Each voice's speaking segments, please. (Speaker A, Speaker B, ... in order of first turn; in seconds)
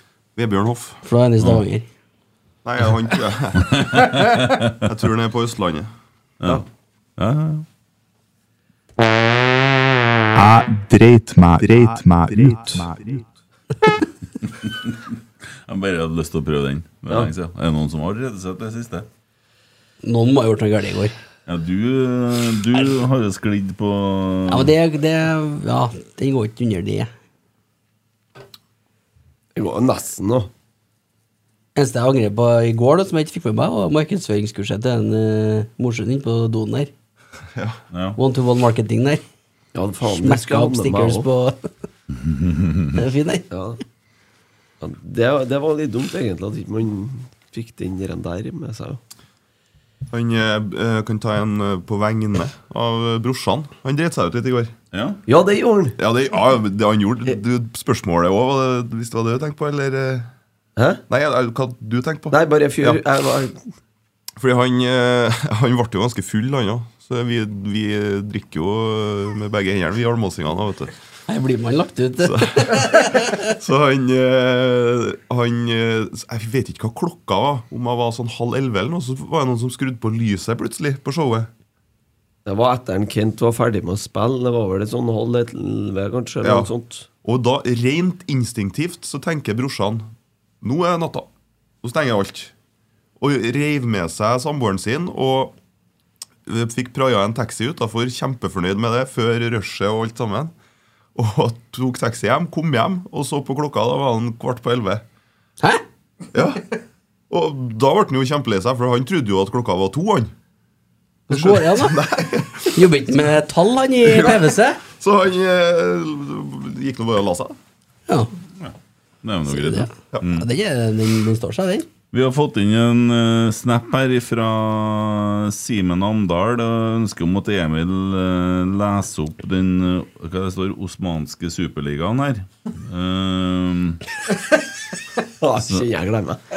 Speaker A: 0.3-1.0, 2.6-4.0, 4.7-5.9, 50.1-54.7, 56.0-60.3, 61.1-63.0, 64.4-70.9, 72.2-81.5, 86.4-86.7, 87.2-90.1, 90.6-91.3, 91.8-92.5, 93.2-95.5, 96.4-100.5, 101.1-105.0, 106.3-106.7, 107.3-110.3, 111.3-112.9, 114.0-117.5
Speaker B: 1.0-1.9, 20.0-21.1, 24.5-27.1, 31.8-36.9, 38.2-39.2, 40.0-41.7, 42.9-43.4, 71.3-73.4, 111.3-112.0, 112.7-114.8, 119.5-121.9
Speaker C: 3.6-4.8, 7.2-7.7, 14.4-15.1, 15.7-19.1, 21.5-24.7, 37.9-38.2, 42.1-43.0, 54.9-55.2, 118.6-120.5, 122.1-134.0
Speaker D: 10.3-13.2
Speaker E: 29.5-30.5, 39.7-41.3, 43.5-43.8, 44.8-49.0, 55.3-56.0, 60.8-61.0, 62.3-63.6, 82.5-87.1, 135.4-136.4